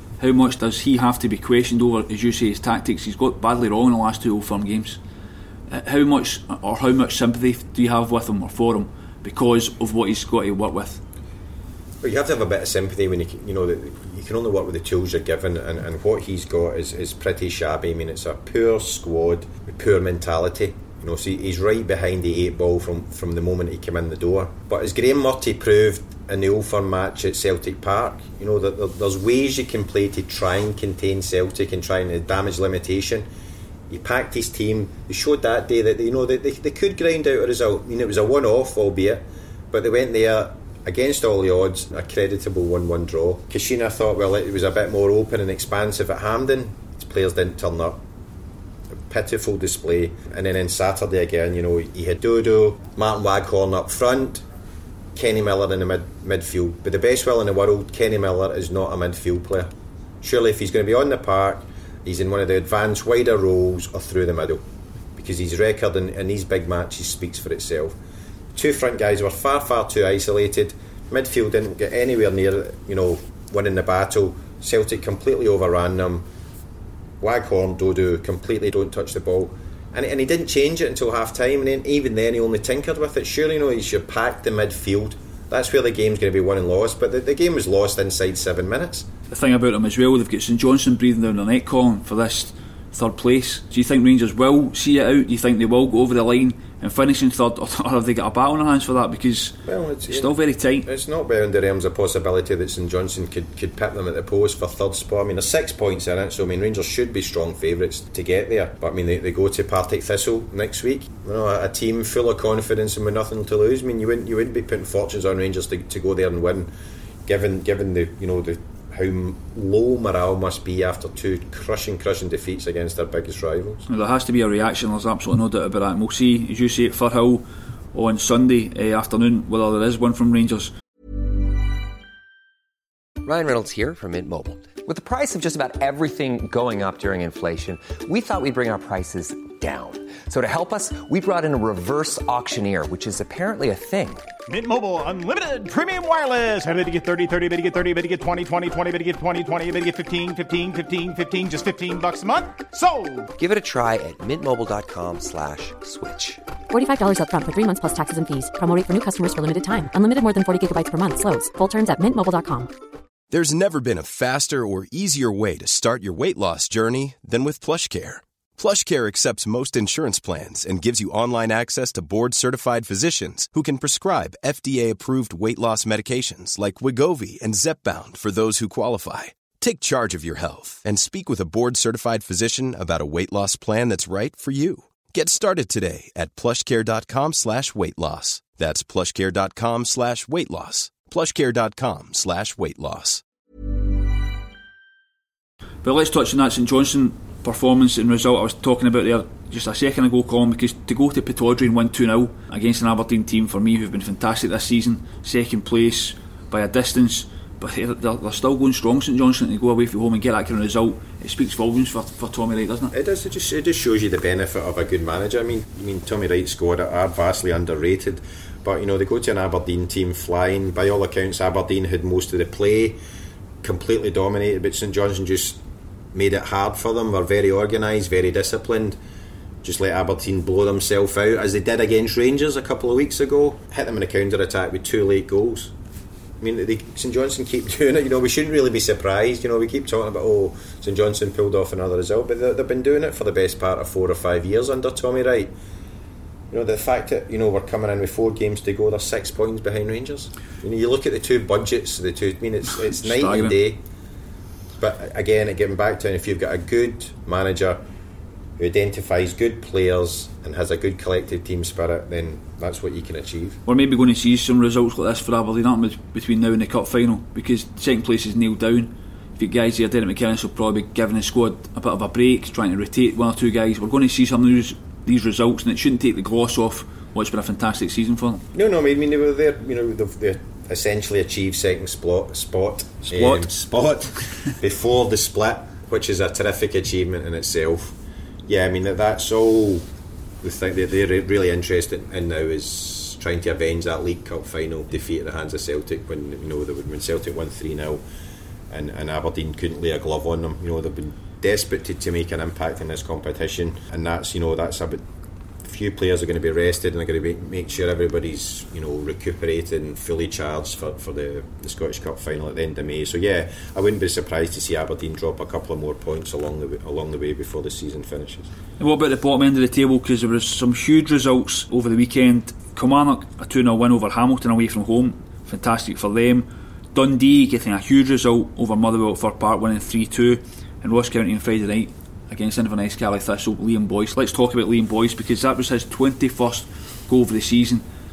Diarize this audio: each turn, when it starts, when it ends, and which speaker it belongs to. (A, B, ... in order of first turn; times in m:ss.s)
0:00.2-0:05.0 A
0:05.7-0:11.0 A
0:12.0-0:33.3 B
0:33.9-0:48.0 B
0:49.1-0:54.4 B
0:55.1-1:04.6 B
1:05.2-1:07.9 B
1:08.5-1:16.2 B
1:17.2-1:29.1 B
1:29.3-1:39.6 A
1:39.6-1:56.7 B
1:40.1-1:40.8 A
1:57.2-2:03.8 B
2:03.9-2:10.7 A
2:13.2-2:24.3 C
2:24.5-2:33.3 D
2:33.4-2:36.4 C
2:36.7-2:42.7 E
2:43.3-3:13.2 F
3:15.8-3:32.9 A
3:32.9-3:43.0 B
3:43.6-3:45.6 B
3:46.1-3:49.0 B
3:49.6-3:55.7 B
3:56.4-4:05.5 B
4:06.5-4:13.8 B
4:12.9-4:13.5 A
4:14.8-4:17.8 B
4:18.6-4:23.6 B
4:23.6-4:38.4 A
4:38.5-4:47.9 B
4:43.1-4:43.5 A
4:48.5-4:49.8 B
4:50.4-4:58.0 B
4:58.7-5:05.0 B
5:05.6-5:18.5 B
5:18.8-5:37.8 A